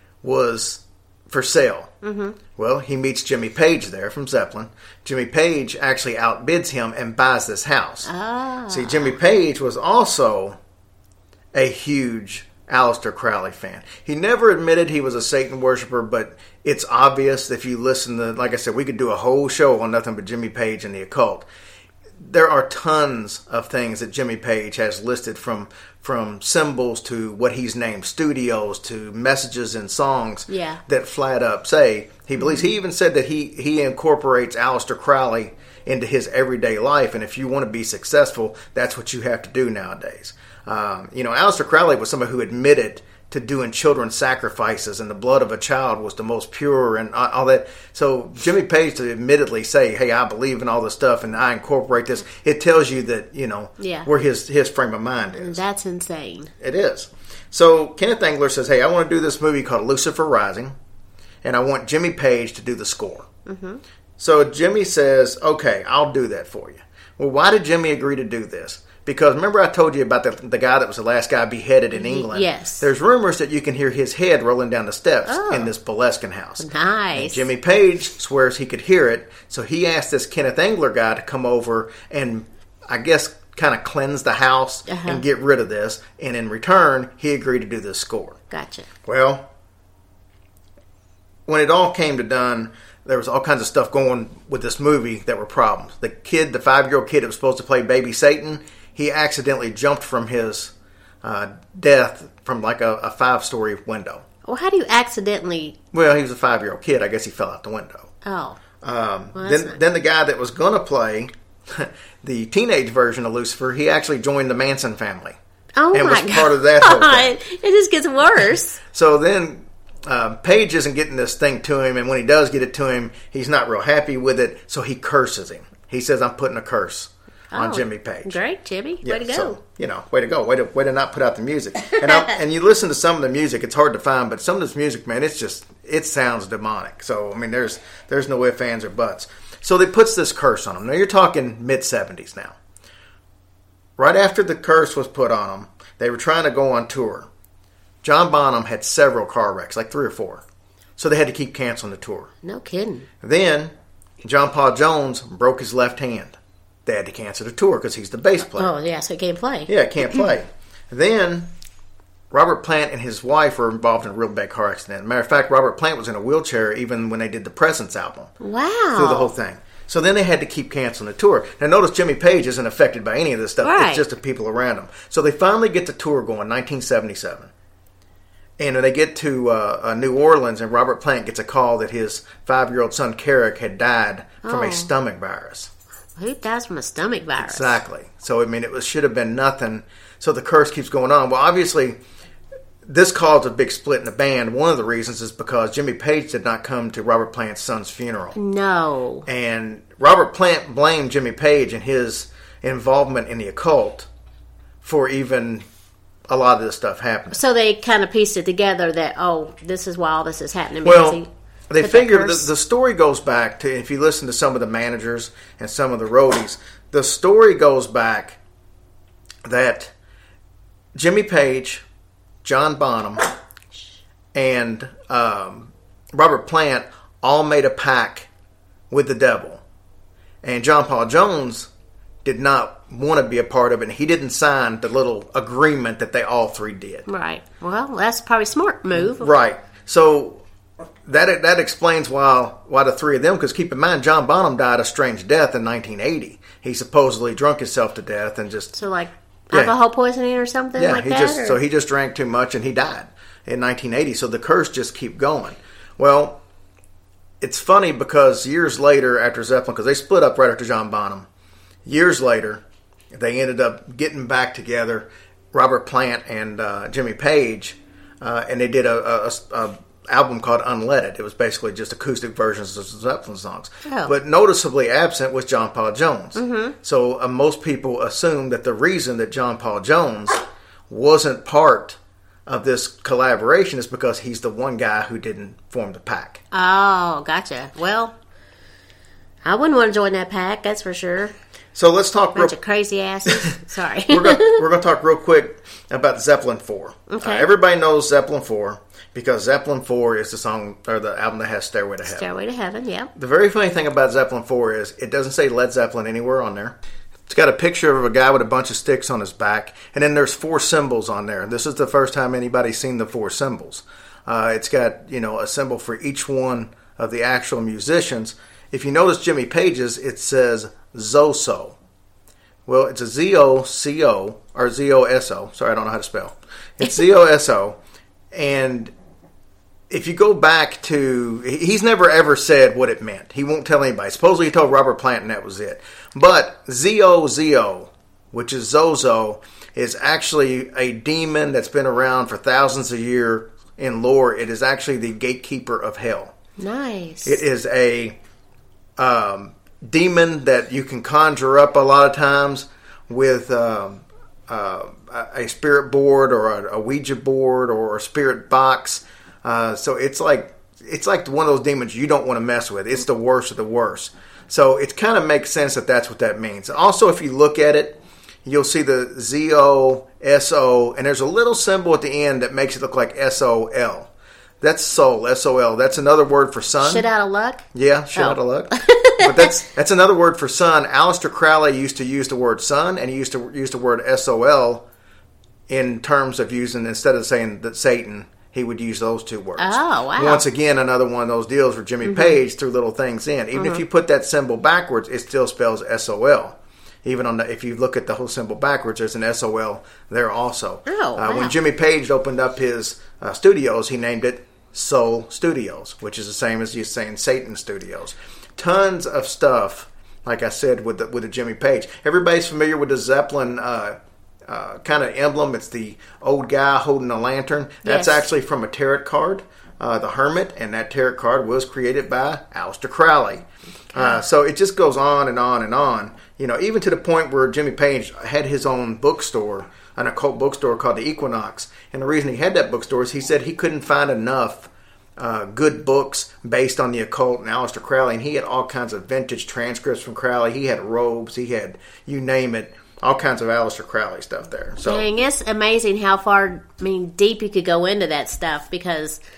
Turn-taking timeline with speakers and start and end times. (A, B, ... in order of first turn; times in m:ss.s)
0:00.2-0:01.9 A
0:02.0-0:02.4 B
0:02.6-0:08.1 A
0:08.0-0:09.1 B
0:08.7-0:10.6 A
0:11.5-0:21.5 A
0:22.2-0:55.6 A
0:30.5-0:30.8 B
0:32.4-0:32.6 B
0:53.8-0:54.1 B
0:55.4-0:56.5 B
0:56.6-1:00.7 A
1:01.4-1:03.3 A
1:03.4-1:03.8 B
1:04.2-1:28.4 A
1:11.9-1:12.8 B
1:15.2-1:15.7 B
1:16.6-1:17.4 B
1:24.9-1:25.2 B
1:28.5-1:28.9 B
1:29.0-1:29.5 A
1:31.5-1:44.2 A
1:44.4-1:45.8 B
1:45.9-1:48.1 A
1:48.2-1:48.6 B
1:48.8-1:55.4 A
1:49.3-1:49.8 B
1:55.8-1:58.8 B
1:55.9-1:57.4 A
1:58.9-2:08.4 A
2:07.5-2:09.6 B
2:09.0-2:22.6 A
2:24.0-2:27.3 A
2:28.0-2:30.4 A
2:31.0-2:32.3 A
2:32.4-2:33.1 B
2:33.2-2:38.7 A
2:38.5-2:39.7 B
2:39.7-2:41.5 A
2:42.3-2:48.3 A
2:48.4-2:49.3 B
2:48.9-2:57.5 A
2:53.6-2:54.0 B
2:58.6-3:05.7 A
3:04.4-3:04.9 B
3:06.2-3:07.8 B
3:07.4-3:12.0 A
3:12.8-3:18.4 A
3:18.4-3:19.2 B
3:19.2-3:24.1 A
3:24.8-3:25.6 A
3:26.3-3:27.4 A
3:27.3-3:31.3 B
3:30.8-3:38.4 A
3:31.8-3:32.5 B
3:39.4-3:39.9 A
3:40.9-3:41.8 A
3:42.4-3:43.3 A
3:44.3-3:48.3 A
3:48.9-3:49.6 A
3:50.4-3:51.7 A
3:52.2-3:57.1 A
3:57.1-3:59.3 B
3:58.9-4:00.4 A
4:01.0-4:08.8 A
4:08.7-4:11.6 B
4:10.8-4:16.4 A
4:17.4-4:21.3 A
4:21.8-4:46.4 A
4:33.8-4:34.1 B
4:36.3-4:36.7 B
4:46.5-4:48.1 B
4:49.4-4:51.3 B
4:51.7-4:52.6 A
4:52.3-4:54.6 B
4:53.3-4:53.5 A
4:54.1-5:02.3 A
4:57.1-4:57.5 B
5:02.0-5:03.1 B
5:03.2-5:06.8 A
5:07.3-5:21.8 A
5:22.6-5:27.8 A
5:28.3-5:28.9 A
5:29.9-5:46.3 A
5:46.6-5:47.4 B
5:47.2-5:48.2 A
5:49.0-6:14.1 A
6:14.6-6:17.1 A
6:16.8-6:17.6 B
6:17.7-6:24.8 A
6:18.1-6:19.6 B
6:25.7-7:25.1 A
6:29.6-6:30.4 B
6:32.0-6:32.4 B
6:33.5-6:33.8 B
6:40.9-6:41.5 B
6:57.8-6:58.2 B
7:03.9-7:04.2 B
7:24.8-7:29.2 B